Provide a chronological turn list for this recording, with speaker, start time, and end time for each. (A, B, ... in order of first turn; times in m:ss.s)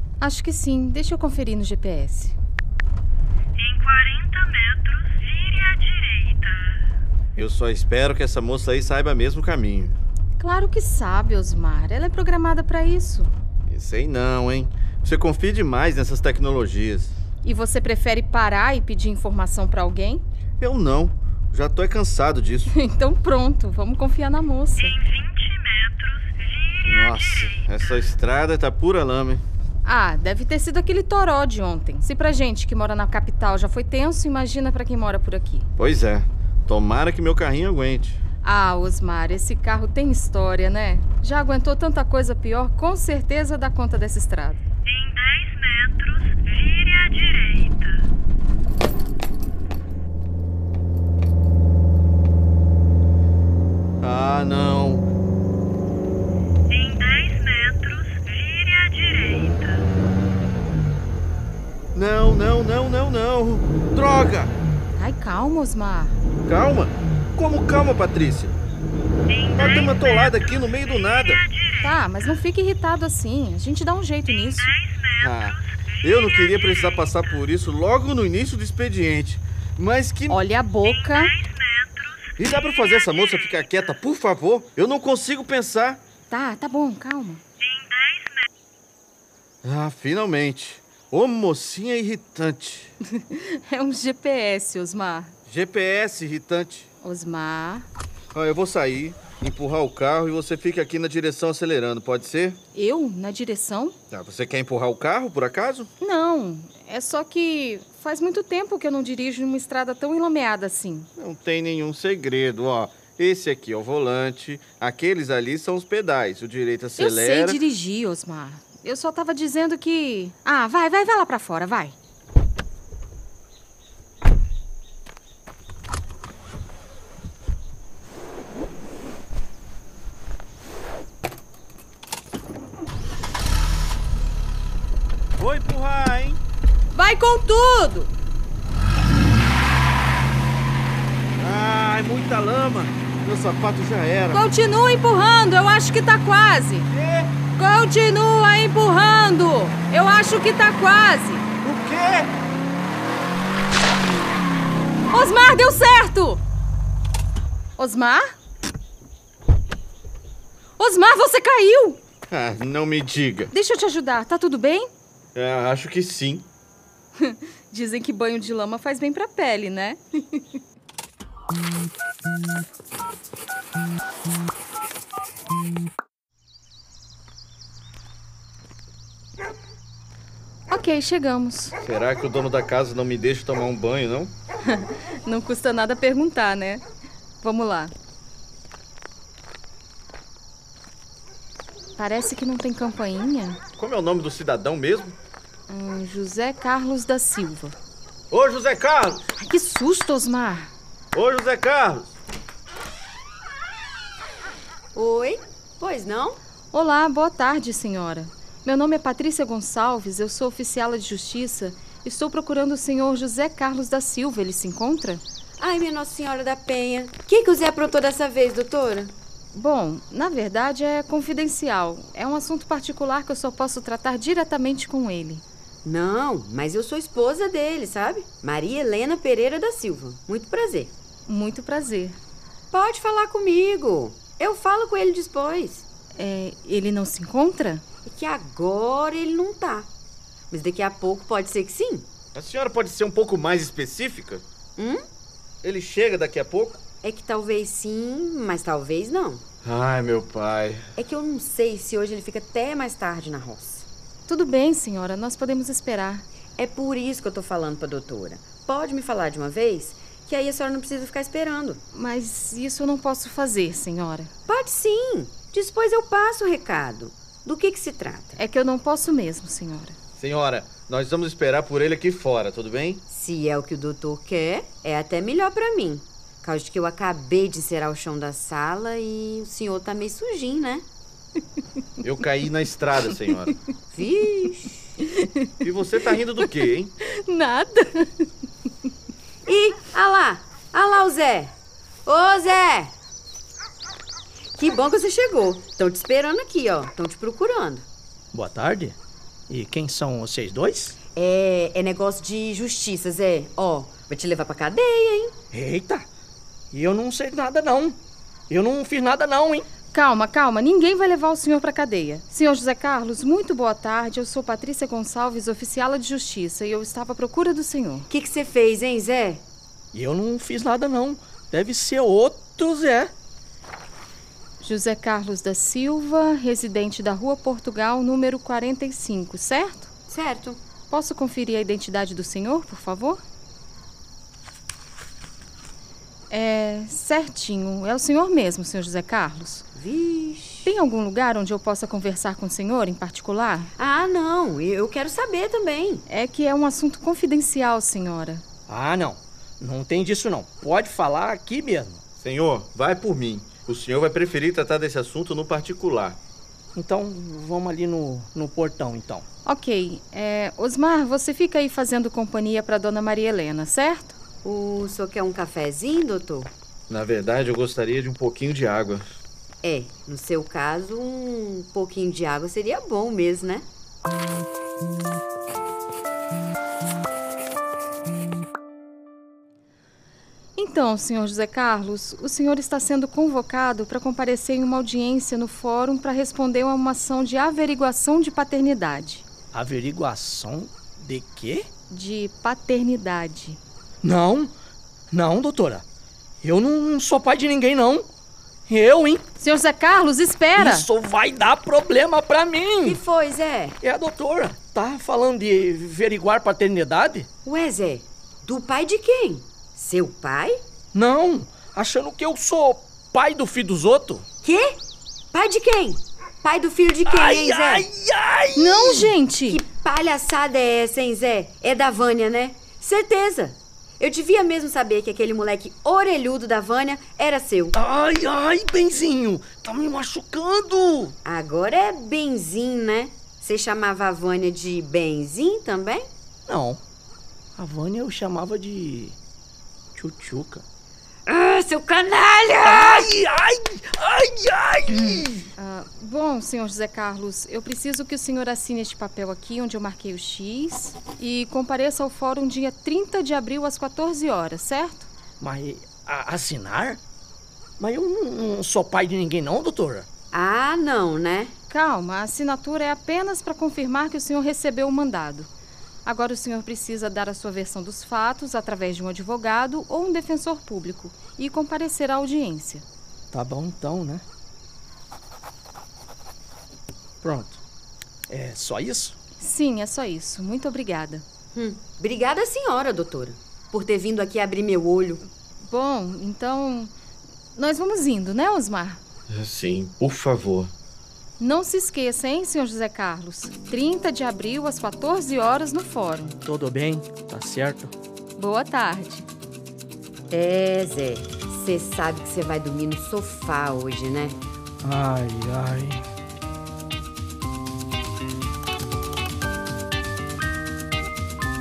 0:00.2-0:02.4 A
0:03.6-0:06.8 B
0:07.3-0:10.0 C
0:10.4-0:13.3 A
0:13.7-0:17.1 C
0:17.4-0:20.2 A
0:20.6-0:22.7 C
0:22.7-0:25.0 A
0:25.0-0:26.8 B
0:26.8-0:29.4 C
0:29.8-0:35.7 A
0:35.8-0:38.2 C
0:38.4-0:44.6 A
0:44.8-0:48.0 B
0:54.0-0:55.1 C
0:56.7-0:59.8 B
1:01.9-1:04.5 C
1:04.9-1:06.2 A
1:06.4-1:08.5 C
1:09.3-1:10.3 B
1:09.5-1:11.5 C
1:11.4-1:11.8 B
1:11.8-1:14.8 A
1:14.8-1:15.1 B
1:15.2-1:20.4 C
1:20.3-1:21.4 A
1:21.4-1:22.3 B
1:22.4-1:26.0 C
1:26.3-1:27.4 A
1:27.6-1:28.4 B
1:29.6-1:32.9 C
1:33.1-1:35.3 A
1:35.5-1:36.9 C
1:37.0-1:37.9 A
1:38.3-1:42.6 C
1:42.7-1:44.0 A
1:44.1-1:45.9 C
1:46.0-1:51.1 A
1:51.2-1:57.6 C
1:57.0-2:02.0 A
2:15.4-2:16.4 C
2:16.9-2:18.1 A
2:21.4-2:24.4 C
2:24.3-2:26.9 A
2:26.9-2:27.3 C
2:27.5-2:31.5 A
2:31.6-2:32.3 C
2:35.1-2:36.4 A
2:37.8-2:38.3 A
2:40.8-2:42.0 A
2:42.3-2:43.5 C
2:43.5-2:44.9 A
2:45.3-2:46.5 C
2:47.2-2:50.5 A
3:00.7-3:01.8 A
3:01.8-3:04.3 C
3:04.6-3:06.8 A
3:07.4-3:07.9 A
3:12.0-3:13.6 A
3:13.8-3:15.2 C
3:15.7-3:17.8 A
3:18.3-3:19.2 C
3:19.4-3:20.7 A
3:21.1-3:22.1 C
3:24.9-3:26.4 D
3:26.7-3:35.2 A
3:35.6-3:39.1 D
3:39.5-3:45.4 A
3:45.8-3:50.9 D
3:51.3-3:52.2 A
3:52.7-3:55.8 D
3:56.2-3:57.8 A
3:58.1-3:59.9 D
4:00.5-4:02.1 D
4:02.3-4:04.4 C
4:04.8-4:05.0 D
4:05.6-4:06.8 C
4:07.0-4:09.4 D
4:09.6-4:10.9 C
4:11.0-4:13.9 D
4:14.3-4:16.2 A
4:16.6-4:21.8 D
4:21.9-4:24.3 A
4:24.5-4:28.4 D
4:28.4-4:30.0 A
4:30.2-4:33.0 C
4:33.1-4:40.8 D
4:42.0-4:43.6 C
4:43.9-4:44.9 D
4:45.1-4:45.5 A
4:45.6-4:46.9 C
4:47.0-4:48.3 A
4:49.4-4:51.5 D
4:52.1-4:52.9 D
4:54.6-4:57.8 D
4:58.3-4:58.9 E
4:59.5-5:01.0 E
5:01.1-5:05.3 D
5:05.5-5:06.0 E
5:06.7-5:08.0 E
5:08.5-5:09.7 E
5:09.9-5:18.1 A
5:18.1-5:19.4 D
5:19.9-5:23.1 E
5:24.6-5:29.9 A
5:30.1-5:30.6 D
5:30.9-5:33.2 A
5:36.3-5:39.7 A
5:39.8-5:40.7 D
5:40.6-5:43.7 A
5:43.8-5:46.0 D
5:46.1-5:48.4 A
5:48.7-5:52.0 E
5:52.2-5:56.2 C
5:56.8-5:59.2 E
5:59.4-6:04.2 A
6:04.4-6:06.5 D
6:06.9-6:09.1 C
6:09.6-6:13.6 D
6:20.6-6:29.2 A
6:29.5-6:31.7 E
6:31.9-6:33.6 A
6:34.0-6:34.5 E
6:35.1-6:35.8 E
6:36.4-6:38.1 E
6:38.7-6:39.2 E
6:39.4-6:40.9 A
6:40.6-6:43.0 E
6:42.8-6:43.8 D
6:43.8-6:47.3 E
6:47.4-6:50.6 D
6:50.9-6:54.2 E
6:54.4-6:54.8 D
6:55.3-6:57.9 D
6:57.0-6:59.0 E
6:58.6-6:59.6 A
6:59.5-7:07.8 D
7:07.7-7:11.1 E
7:11.2-7:16.1 D
7:16.5-7:16.8 E
7:17.6-7:19.2 E
7:19.9-7:20.6 E
7:21.3-7:23.1 D
7:22.6-7:25.5 E
7:25.6-7:35.1 A
7:35.4-7:37.0 E
7:37.8-7:40.1 E
7:40.3-7:41.5 D
7:41.7-7:45.5 A
7:46.0-7:52.8 A
7:53.3-7:54.2 E
7:57.2-7:57.6 E
7:58.3-7:59.2 E
7:59.4-8:01.2 A
8:01.5-8:05.2 D
8:05.6-8:06.9 A
8:07.6-8:09.0 A
8:09.3-8:10.7 C
8:11.4-8:16.4 A
8:16.4-8:17.9 E
8:18.4-8:19.3 A
8:20.3-8:24.4 D
8:24.8-8:26.0 E